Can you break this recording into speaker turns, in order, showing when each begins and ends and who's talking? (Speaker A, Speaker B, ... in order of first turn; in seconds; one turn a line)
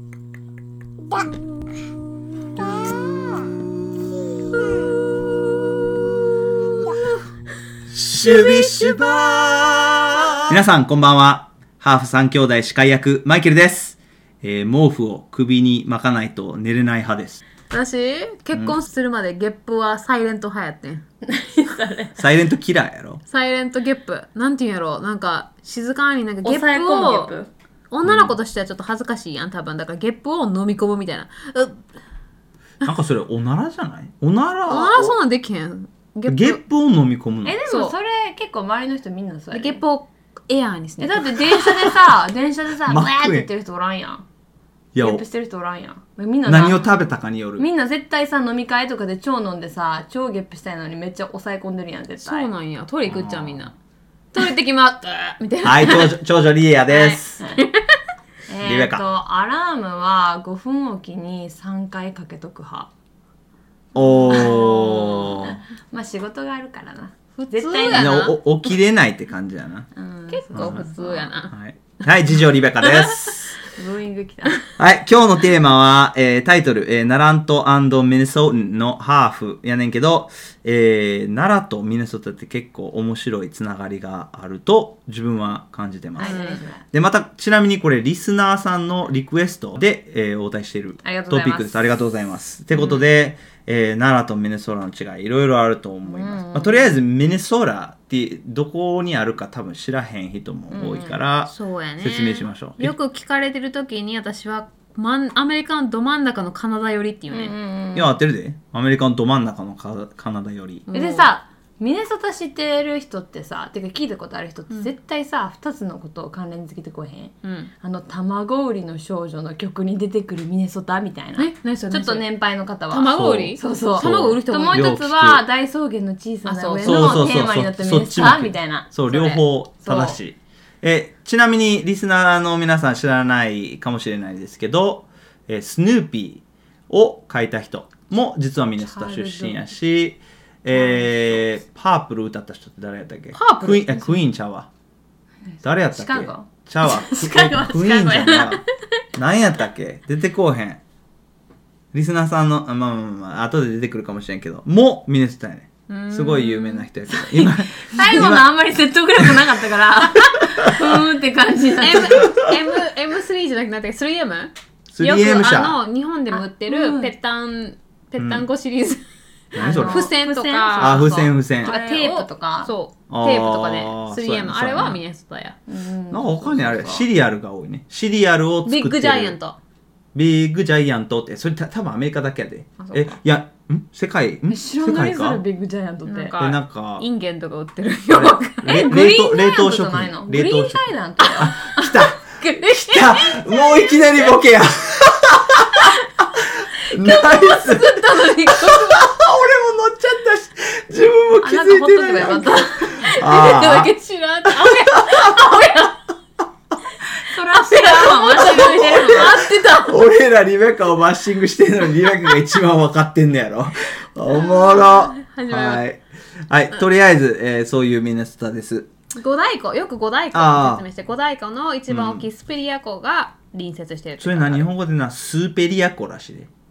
Speaker A: 7.9-17.4
Speaker B: 8.2-9.0
Speaker B: 17.7-21.0
Speaker C: 21.2-22.2
Speaker A: 22.2-23.2
Speaker B: 23.3-27.3
Speaker C: 26.4-27.5
Speaker B: 27.9-31.8
Speaker A: 28.0-28.3
Speaker A: 32.8-35.1
Speaker B: 34.7-36.6
Speaker A: 36.3-37.6
Speaker C: 37.4-39.8
Speaker B: 37.7-37.9
Speaker B: 39.5-41.9
Speaker C: 41.0-44.2
Speaker A: 42.9-43.5
Speaker A: 44.9-45.2
Speaker C: 45.0-46.9
Speaker A: 46.5-47.6
Speaker C: 47.6-52.5
Speaker B: 52.2-53.7
Speaker A: 53.0-53.7
Speaker B: 54.3-56.1
Speaker A: 55.6-57.4
Speaker B: 56.9-58.0
Speaker C: 58.5-62.9
Speaker A: 58.6-59.0
Speaker A: 63.9-65.6
Speaker C: 64.0-68.3
Speaker B: 64.0-65.2
Speaker B: 67.4-68.4
Speaker A: 67.9-69.9
Speaker C: 70.0-71.3
Speaker B: 70.3-71.5
Speaker A: 70.5-70.9
Speaker A: 71.5-73.5
Speaker C: 73.7-74.6
Speaker A: 74.8-102.9
Speaker C: 86.2-86.8
Speaker B: 86.2-86.6
Speaker C: 91.0-91.8
Speaker B: 92.7-93.0
Speaker C: 96.0-97.0
Speaker C: 100.7-101.2
Speaker B: 101.5-107.5
Speaker C: 107.3-108.2
Speaker A: 107.9-110.9
Speaker B: 110.9-111.3
Speaker C: 110.9-130.2
Speaker B: 117.4-117.7
Speaker B: 121.4-122.3
Speaker B: 122.9-124.9
Speaker A: 123.1-125.4
Speaker B: 126.5-127.3
Speaker A: 126.8-144.7
Speaker C: 138.8-139.6
Speaker C: 140.7-141.0
Speaker B: 143.3-144.2
Speaker C: 145.5-148.6
Speaker A: 145.6-148.6
Speaker A: 149.1-150.8
Speaker A: 151.9-158.5
Speaker B: 155.9-156.9
Speaker C: 157.2-162.3
Speaker A: 159.2-159.5
Speaker A: 160.6-161.0
Speaker B: 161.8-169.0
Speaker A: 162.2-162.6
Speaker A: 164.9-165.8
Speaker C: 166.3-167.1
Speaker A: 168.2-168.4
Speaker A: 169.5-170.1
Speaker C: 169.6-172.7
Speaker B: 169.7-175.6
Speaker A: 170.8-171.7
Speaker A: 173.1-175.0
Speaker C: 175.7-177.1
Speaker A: 176.1-179.3
Speaker B: 178.6-179.6
Speaker A: 180.1-185.4
Speaker B: 182.8-183.2
Speaker C: 184.5-186.3
Speaker B: 186.1-188.9
Speaker A: 186.4-187.0
Speaker A: 188.1-203.9
Speaker C: 188.6-192.6
Speaker B: 192.6-193.4
Speaker B: 196.9-199.1
Speaker C: 201.4-203.1
Speaker B: 202.8-205.9
Speaker A: 204.4-205.7
Speaker C: 207.2-209.4
Speaker B: 207.5-210.0
Speaker A: 208.4-218.9
Speaker B: 214.3-215.8
Speaker B: 219.2-224.7
Speaker A: 220.3-220.8
Speaker A: 221.9-222.2
Speaker A: 224.2-226.5